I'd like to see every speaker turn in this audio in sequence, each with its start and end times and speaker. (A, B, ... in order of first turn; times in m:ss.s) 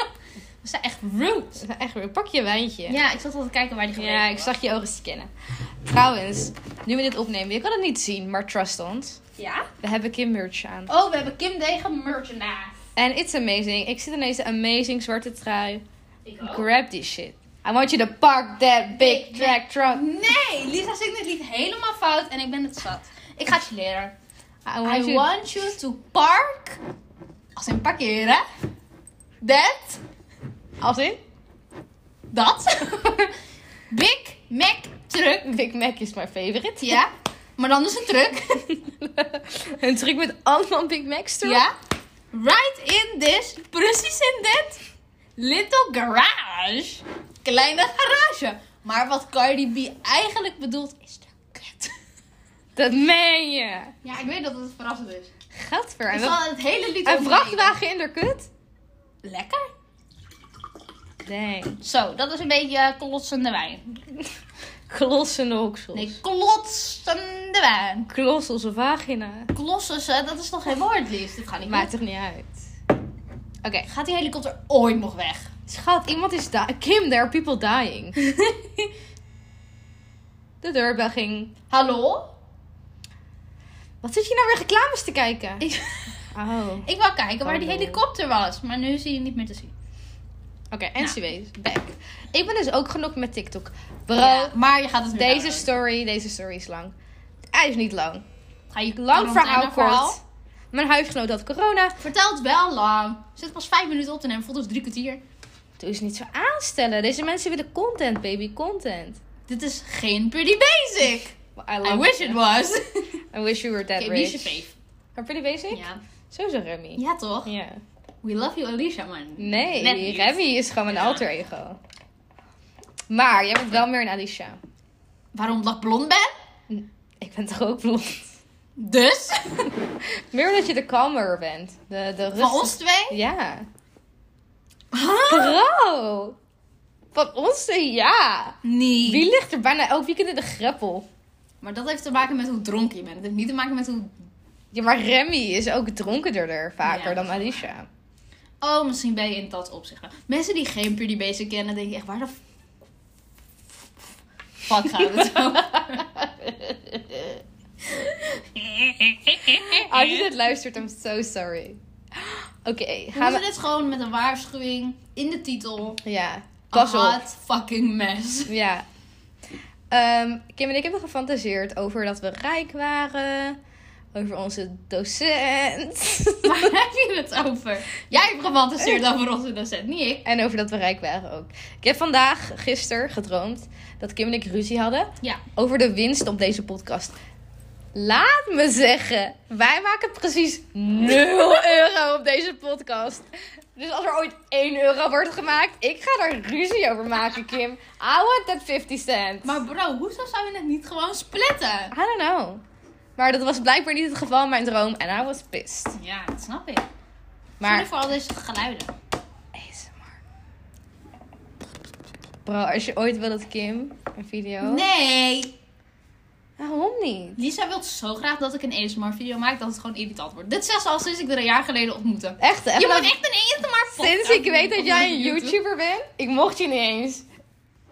0:00.6-0:01.6 A
0:01.6-0:03.0 B
0:02.9-0:04.5 A
0:04.0-0:09.2 B
0:09.4-0:09.7 A
0:09.8-0:10.9 B
0:10.9-0:12.8 A
0:13.0-0:15.8 B
0:16.2-0:16.6 A
0:16.4-0:20.0 B
0:18.9-0:24.2 A
0:24.6-0:25.3 B
0:24.8-0:26.8 A
0:27.6-0:28.4 A
0:29.4-0:30.0 A
0:30.8-0:31.2 B
0:32.3-0:33.3 A
0:33.9-0:35.5 A
0:35.4-0:37.0 B
0:36.8-0:38.7 A
0:38.7-0:41.6 B
0:41.4-0:41.7 A
0:42.3-0:44.8 A
0:45.4-0:51.9 A
0:52.8-0:53.9 B
0:54.0-0:55.3 A
0:55.5-0:56.4 B
0:56.1-0:57.8 A
0:57.0-0:58.5 B
0:59.2-0:59.7 A
1:01.2-1:01.8 B
1:01.8-1:04.0 A
1:04.9-1:06.2 B
1:05.9-1:08.1 A
1:08.1-1:09.5 B
1:09.5-1:11.9 A
1:11.6-1:12.6 B
1:13.9-1:15.5 A
1:15.7-1:18.2 B
1:18.2-1:18.9 A
1:20.6-1:21.5 B
1:21.7-1:22.3 A
1:24.0-1:25.7 B
1:25.6-1:26.2 A
1:26.3-1:26.9 B
1:26.8-1:29.7 A
1:27.4-1:28.0 B
1:30.7-1:34.5 B
1:34.2-1:35.7 A
1:35.1-1:36.9 B
1:37.5-1:38.2 B
1:38.7-1:40.2 A
1:39.0-1:42.0 B
1:42.0-1:45.2 A
1:45.8-1:49.2 B
1:49.5-1:53.1 A
1:51.6-1:52.4 B
1:53.3-1:54.6 B
1:54.0-1:54.8 A
1:55.1-1:57.8 B
1:55.7-1:56.0 A
1:57.0-1:57.5 A
1:58.2-2:01.2 A
1:59.4-2:01.8 B
2:03.1-2:04.6 B
2:05.3-2:06.3 A
2:06.7-2:08.4 B
2:08.8-2:09.7 A
2:10.0-2:13.6 B
2:12.3-2:13.2 A
2:14.9-2:15.6 A
2:15.3-2:16.4 B
2:17.1-2:21.1 B
2:18.6-2:19.3 A
2:21.6-2:24.2 A
2:24.7-2:27.9 B
2:26.8-2:27.5 A
2:28.6-2:32.4 A
2:34.6-2:36.1 A
2:34.9-2:37.4 B
2:37.8-2:40.3 A
2:39.5-2:43.4 B
2:43.1-2:46.0 A
2:46.0-2:47.2 B
2:46.7-2:48.5 A
2:48.5-2:48.8 B
2:49.9-2:53.6 B
2:54.1-2:56.7 B
2:56.4-3:00.2 A
3:00.2-3:07.2 B
3:07.9-3:19.6 B
3:19.4-3:21.9 A
3:21.9-3:22.6 B
3:23.2-3:26.0 B
3:25.9-3:26.9 A
3:27.6-3:27.9 B
3:27.6-3:28.9 A
3:29.5-3:30.2 B
3:32.4-3:34.9 B
3:34.6-3:35.5 A
3:36.6-3:37.4 B
3:37.4-3:45.6 A
3:42.4-3:43.2 B
3:43.9-3:47.2 B